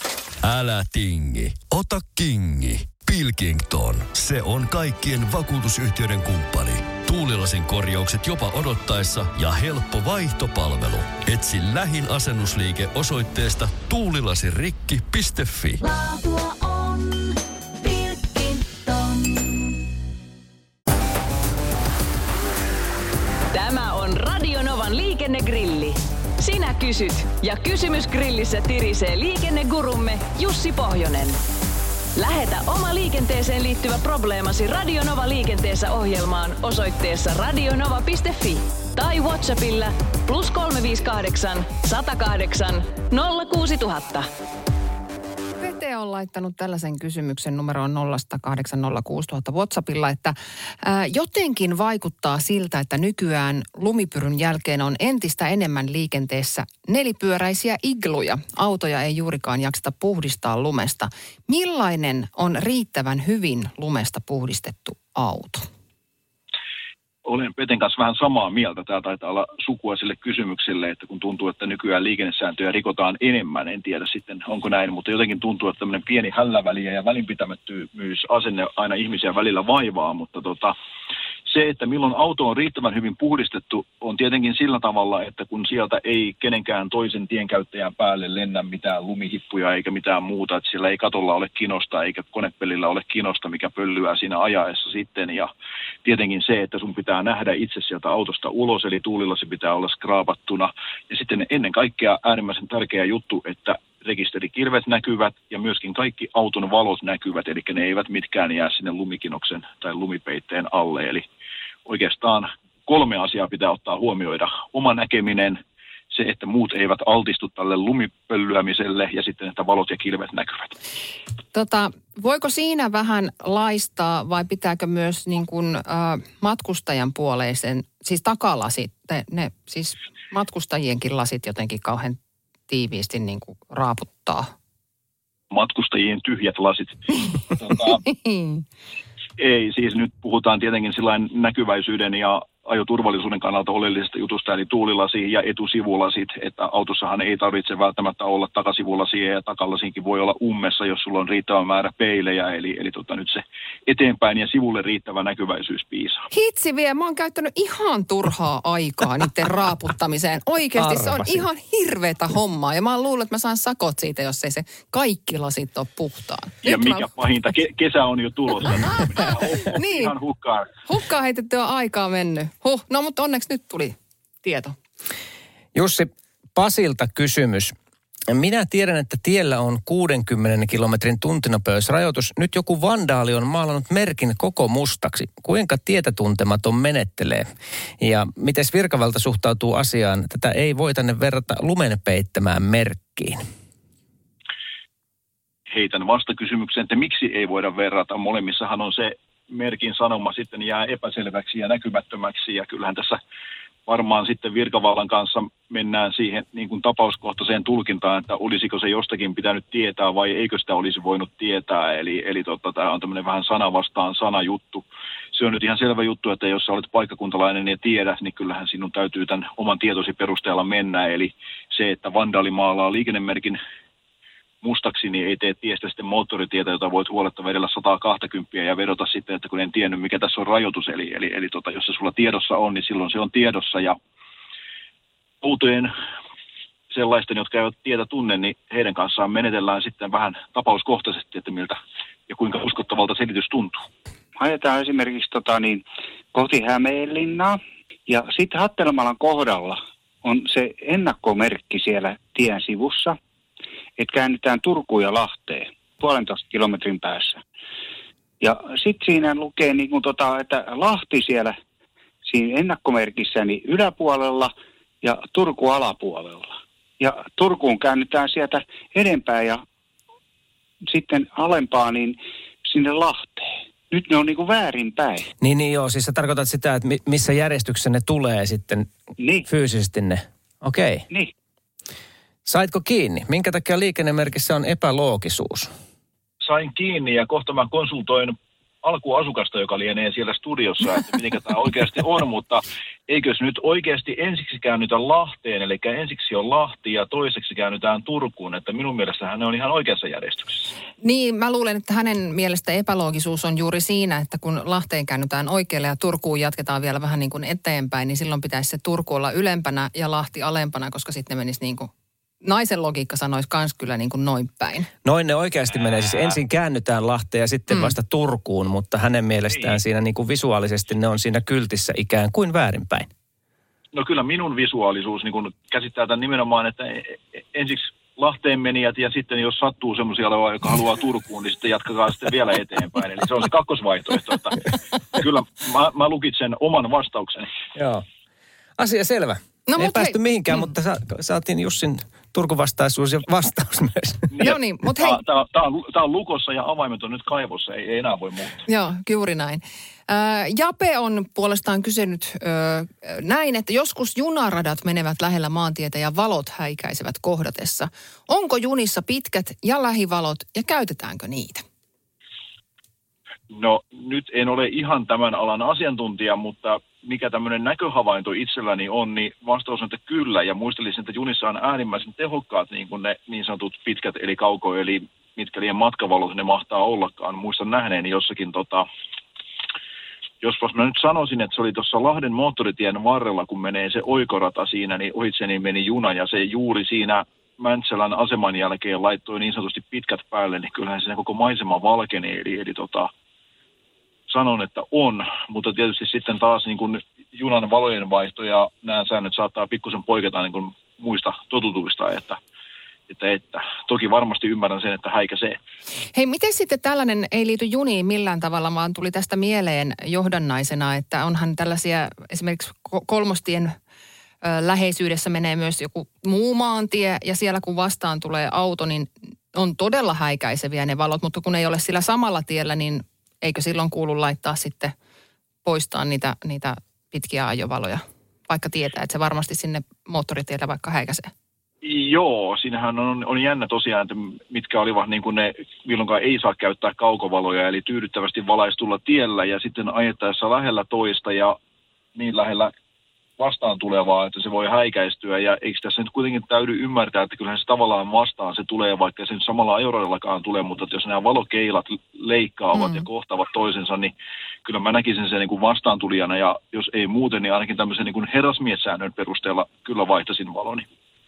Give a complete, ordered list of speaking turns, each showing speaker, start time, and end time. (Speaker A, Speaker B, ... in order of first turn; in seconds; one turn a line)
Speaker A: 0.4-15.8
Speaker B: 16.0-16.9
Speaker B: 23.5-31.4
Speaker B: 32.2-44.3
Speaker C: 45.6-65.6
Speaker D: 67.3-80.7
Speaker D: 81.5-95.5
Speaker D: 96.0-111.2
Speaker D: 111.9-115.6
Speaker D: 116.1-120.7
Speaker C: 121.5-132.2
Speaker C: 132.7-134.5
Speaker D: 135.5-138.0
Speaker C: 137.9-138.6
Speaker D: 139.4-156.2
Speaker C: 156.3-167.1
Speaker E: 160.8-161.4
Speaker D: 166.7-170.7
Speaker C: 169.6-170.1
Speaker C: 170.8-174.8
Speaker E: 175.8-177.7
Speaker E: 178.3-187.5
Speaker E: 188.0-193.4
Speaker D: 195.7-203.2
Speaker D: 203.9-223.6
Speaker D: 224.6-234.0
Speaker D: 235.4-235.9
Speaker D: 236.9-241.8
Speaker D: 242.3-243.8
Speaker F: 244.4-253.2
Speaker F: 254.0-257.4
Speaker F: 258.4-261.6
Speaker F: 262.2-269.6
Speaker F: 270.9-275.3
Speaker E: 275.4-278.9
Speaker F: 279.2-279.5
Speaker E: 279.4-281.1
Speaker E: 282.5-285.7
Speaker D: 286.4-300.7
Speaker C: 301.0-311.9
Speaker C: 312.4-314.9
Speaker E: 315.0-323.1
Speaker C: 317.7-317.9
Speaker D: 323.9-337.5
Speaker E: 337.8-338.0
Speaker E: 338.8-344.3
Speaker C: 339.7-340.6
Speaker D: 344.3-348.6
Speaker C: 344.4-345.2
Speaker C: 348.7-361.6
Speaker D: 363.5-378.9
Speaker D: 380.4-393.1
Speaker D: 394.3-402.4
Speaker D: 403.1-405.6
Speaker C: 406.1-413.7
Speaker C: 414.4-424.9
Speaker C: 425.6-431.3
Speaker D: 431.8-441.5
Speaker D: 442.2-442.7
Speaker D: 443.4-454.1
Speaker C: 452.8-453.0
Speaker D: 454.6-460.9